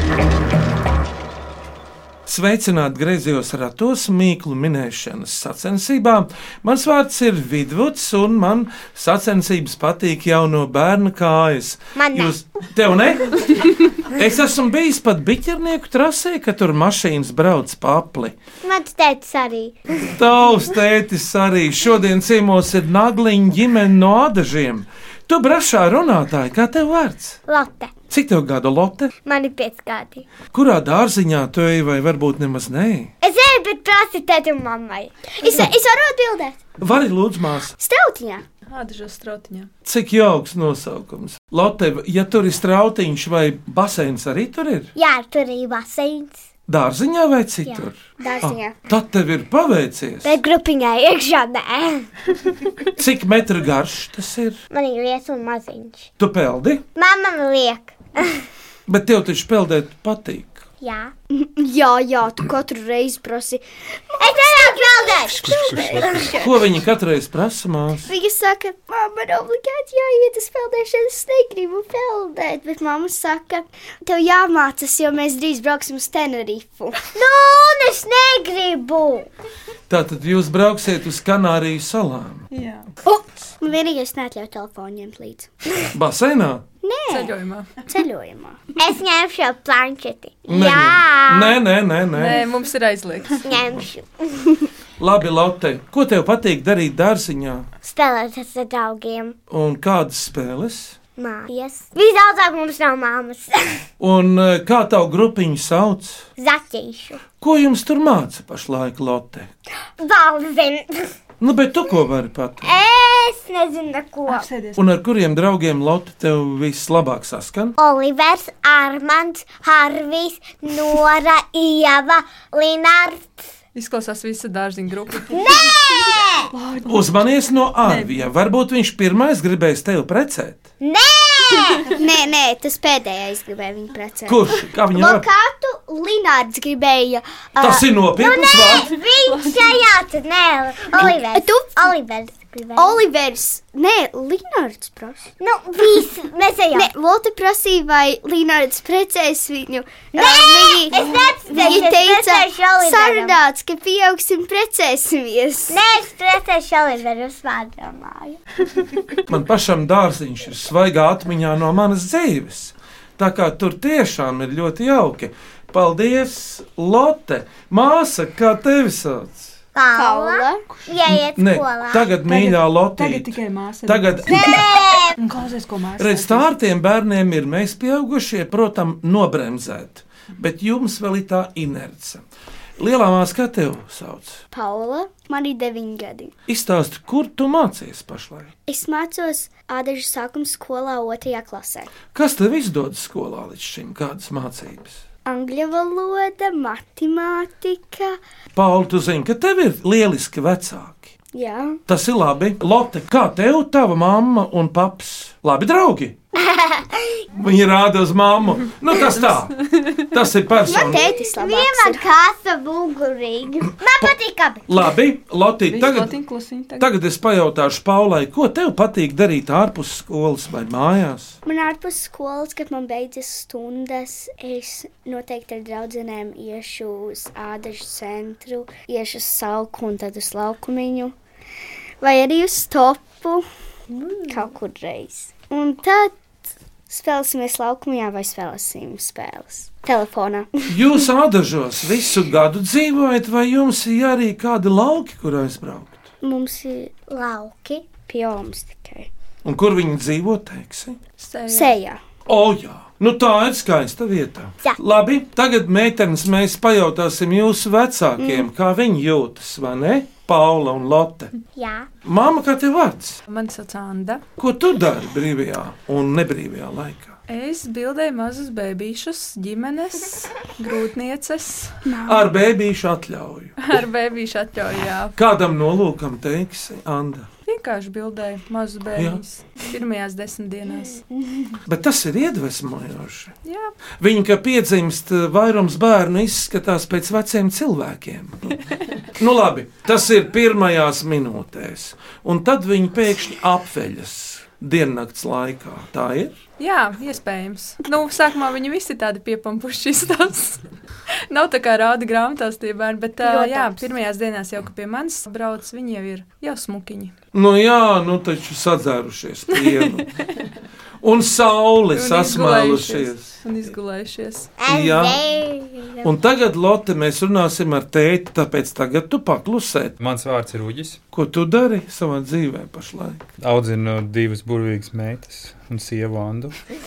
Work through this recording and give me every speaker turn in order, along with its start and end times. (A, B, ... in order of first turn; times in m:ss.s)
0:02.3-0:18.4 A
0:12.0-0:12.3 B
0:18.6-0:20.1 B
0:20.1-0:27.4 A
0:27.5-0:27.9 B
0:28.1-0:29.1 A
0:29.2-0:30.3 B
0:30.5-0:33.1 A
0:33.2-0:35.7 B
0:35.4-0:36.5 C
0:36.8-0:37.7 A
0:37.8-0:38.4 C
0:38.7-0:39.7 D
0:39.8-0:44.9 A
0:45.0-0:46.4 B
0:46.7-0:50.4 A
0:48.2-0:48.8 C
0:50.2-0:52.1 B
0:53.0-0:54.6 A
0:54.7-0:56.1 B
0:56.2-0:56.8 A
0:57.0-0:58.4 B
0:58.9-1:00.6 A
1:00.8-1:01.1 B
1:01.3-1:06.6 C
1:04.2-1:06.4 B
1:05.4-1:06.3 E
1:06.4-1:08.1 A
1:08.0-1:17.0 C
1:17.1-1:19.3 B
1:19.9-1:22.4 A
1:22.5-1:22.9 D
1:23.6-1:25.8 C
1:25.9-1:26.6 A
1:26.8-1:27.3 C
1:27.1-1:27.7 D
1:27.9-1:28.6 C
1:28.8-1:31.6 B
1:30.5-1:32.4 A
1:32.1-1:33.4 D
1:33.4-1:34.7 B
1:35.0-1:37.7 A
1:37.8-1:39.4 B
1:39.5-1:41.0 A
1:41.2-1:43.8 B
1:44.0-1:46.3 A
1:46.4-1:47.2 B
1:47.4-1:49.5 A
1:50.0-1:51.1 B
1:51.4-1:52.7 A
1:52.6-1:54.5 B
1:54.3-1:54.8 D
1:54.8-1:57.8 A
1:57.8-2:03.5 B
2:03.8-2:05.4 D
2:05.3-2:06.5 B
2:06.5-2:07.2 D
2:06.9-2:10.6 A
2:07.8-2:08.2 D
2:10.8-2:12.0 B
2:11.9-2:17.8 C
2:14.3-2:15.2 A
2:17.6-2:23.0 B
2:17.6-2:18.9 A
2:19.2-2:19.6 D
2:20.9-2:22.0 C
2:22.8-2:25.3 C
2:25.4-2:26.9 B
2:26.7-2:35.8 C
2:30.1-2:33.4 B
2:35.7-2:38.4 B
2:39.3-2:49.6 A
2:49.7-2:52.1 B
2:49.9-2:50.6 C
2:51.1-2:54.7 A
2:52.3-2:54.5 D
2:54.3-2:55.2 B
2:55.2-2:56.5 D
2:56.0-3:02.2 A
3:02.8-3:04.4 A
3:04.5-3:06.3 C
3:06.5-3:08.5 A
3:08.7-3:11.9 C
3:12.1-3:15.0 A
3:15.2-3:18.2 C
3:18.5-3:21.1 A
3:21.3-3:21.8 C
3:21.9-3:26.2 A
3:26.4-3:27.1 B
3:27.4-3:29.6 A
3:29.2-3:30.0 D
3:30.1-3:31.0 A
3:30.6-3:32.0 C
3:30.7-3:34.7 B
3:34.7-3:36.1 A
3:35.7-3:36.9 D
3:36.8-3:41.4 A
3:41.4-3:51.2 C
3:52.0-3:53.5 C
3:54.3-3:56.1 C
3:56.9-4:00.9 C
4:00.7-4:05.9 A
4:06.2-4:06.9 C
4:07.1-4:07.9 B
4:08.1-4:09.1 C
4:09.4-4:11.0 A
4:11.2-4:11.8 D
4:11.5-4:12.0 C
4:12.3-4:21.3 A
4:18.2-4:18.5 C
4:21.6-4:21.9 B
4:22.0-4:23.2 A
4:23.3-4:24.2 D
4:24.4-4:27.2 A
4:27.3-4:31.8 D
4:31.9-4:32.3 C
4:32.0-4:33.8 A
4:33.6-4:35.2 D
4:35.2-4:37.3 A
4:37.5-4:41.0 D
4:39.0-4:39.2 A
4:41.7-4:43.3 A
4:43.4-4:43.7 D
4:44.0-4:56.3 A
4:56.6-5:00.6 D
5:01.3-5:07.1 D
5:03.2-5:03.9 C
5:07.3-5:10.1 A
5:09.6-5:10.0 D
5:11.0-5:13.4 A
5:11.9-5:14.5 D
5:14.6-5:16.1 B
5:14.7-5:15.2 A
5:16.0-5:20.0 A
5:20.0-5:21.0 E
5:21.1-5:23.2 A
5:23.4-5:26.6 E